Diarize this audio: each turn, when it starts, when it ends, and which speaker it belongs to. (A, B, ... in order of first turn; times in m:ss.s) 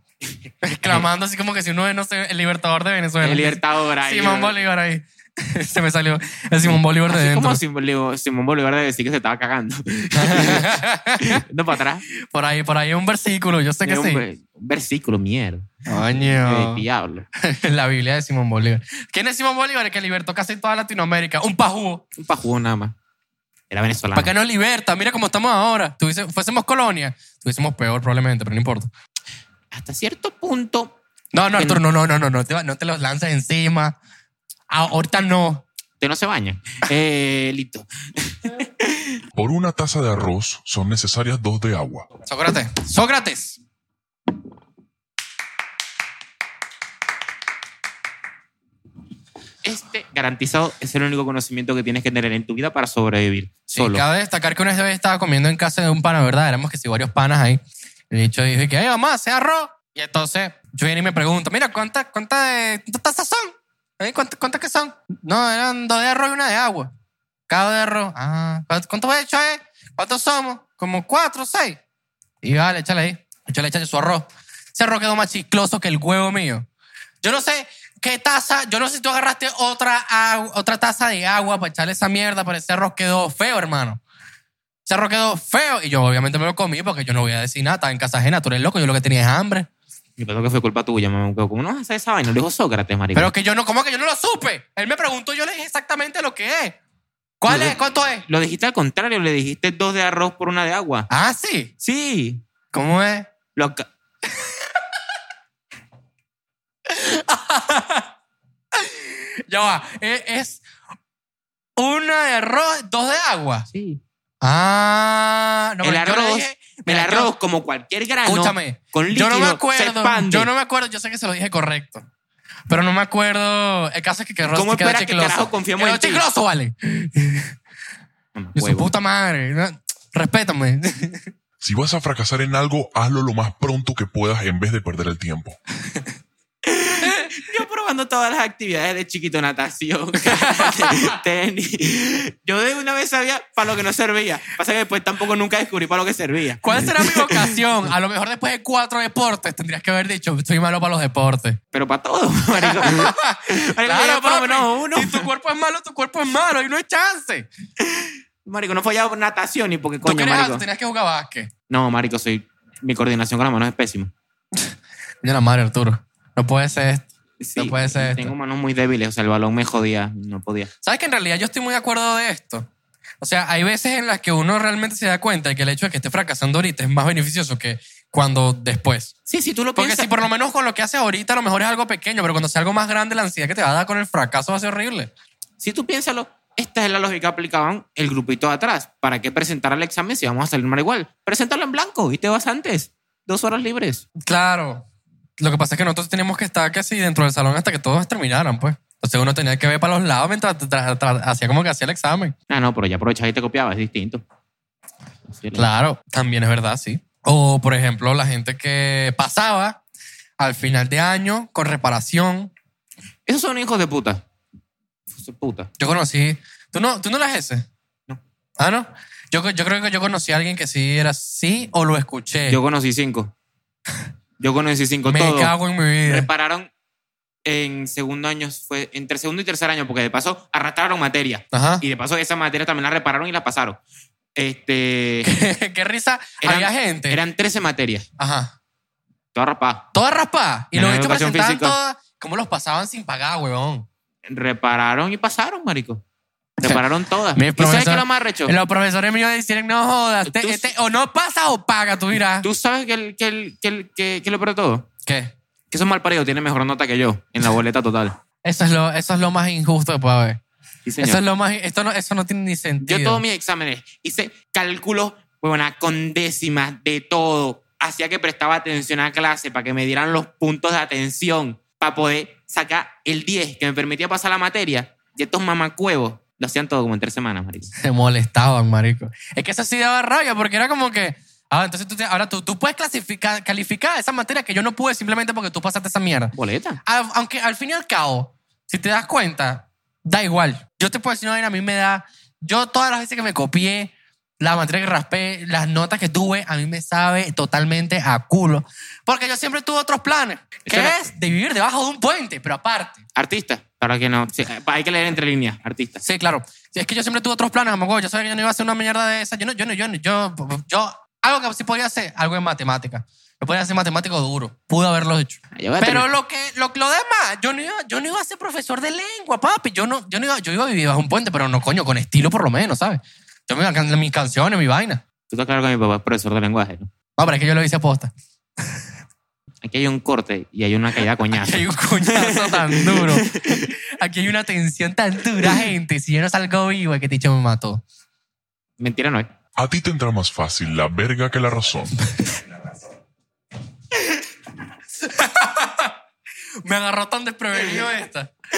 0:00.6-0:07.6 A
0:03.2-0:04.6 B
0:06.7-0:12.0 B
0:10.1-0:11.4 A
0:12.3-0:14.2 A
0:13.8-0:17.3 B
0:15.9-0:16.8 A
0:17.4-0:22.0 A
0:22.2-0:22.9 B
0:23.7-0:24.3 B
0:24.2-0:28.9 A
0:29.7-0:31.0 B
0:31.3-0:34.0 A
0:31.5-0:31.8 B
0:34.7-0:35.6 A
0:36.0-0:39.2 B
0:39.4-0:42.1 C
0:42.2-0:43.6 A
0:49.6-0:54.0 B
0:53.7-1:06.9 A
1:07.5-1:11.8 A
1:12.4-1:16.7 A
1:17.2-1:24.0 A
1:24.9-1:29.7 A
1:30.2-1:33.3 B
1:33.2-1:36.8 A
1:37.4-1:38.2 A
1:37.5-1:41.1 B
1:41.1-1:41.7 A
1:41.8-1:42.4 B
1:42.7-1:43.3 A
1:43.5-1:43.9 B
1:46.9-1:48.1 A
1:48.7-1:50.6 A
1:51.8-1:53.7 A
1:53.7-1:54.0 B
1:54.4-1:57.3 A
1:55.8-2:00.5 B
1:58.2-2:02.0 A
2:02.7-2:07.5 A
2:04.4-2:06.2 B
2:08.4-2:08.9 B
2:08.6-2:11.3 A
2:11.6-2:15.6 C
2:16.7-2:27.6 B
2:20.2-2:21.1 A
2:26.6-2:31.6 A
2:31.7-2:35.3 B
2:32.6-2:37.5 A
2:37.8-2:40.6 B
2:40.0-2:41.5 A
2:41.7-2:44.1 B
2:45.2-2:48.3 A
2:47.4-2:50.7 B
2:50.8-2:52.7 A
2:53.2-2:59.2 A
2:59.3-3:00.2 B
2:59.8-3:05.1 A
3:05.6-3:14.0 B
3:14.3-3:14.8 A
3:15.4-3:22.4 A
3:22.5-3:24.2 B
3:25.3-3:25.7 B
3:25.6-3:29.8 A
3:30.4-3:32.5 A
3:33.3-3:34.2 B
3:35.1-3:35.7 B
3:35.8-3:37.7 A
3:38.6-3:42.6 A
3:42.5-3:43.3 B
3:44.4-3:45.5 B
3:45.1-3:46.3 A
3:46.0-3:46.7 B
3:47.4-3:53.8 B
3:51.5-3:51.8 A
3:54.4-3:55.3 B
3:55.2-3:57.2 A
3:56.4-3:58.1 B
3:58.2-3:58.5 A
3:59.3-3:59.9 B
3:59.9-4:03.9 A
4:00.7-4:01.8 B
4:04.3-4:06.0 B
4:06.6-4:08.6 B
4:07.4-4:12.5 A
4:10.3-4:10.7 B
4:12.4-4:14.9 B
4:15.1-4:15.3 A
4:15.7-4:18.2 B
4:18.4-4:20.4 A
4:20.9-4:21.2 B
4:21.0-4:23.2 A
4:22.8-4:37.7 B
4:37.8-5:03.0 A
4:46.3-4:46.8 B
5:00.7-5:01.0 B
5:03.2-5:06.0 B
5:06.0-5:25.0 A
5:15.6-5:16.1 B
5:25.3-5:26.9 B
5:27.2-5:28.1 A
5:29.6-5:33.7 B
5:31.3-5:37.8 A
5:38.8-5:39.3 B
5:39.6-5:42.0 C
5:45.0-5:45.9 A
5:46.6-5:48.3 A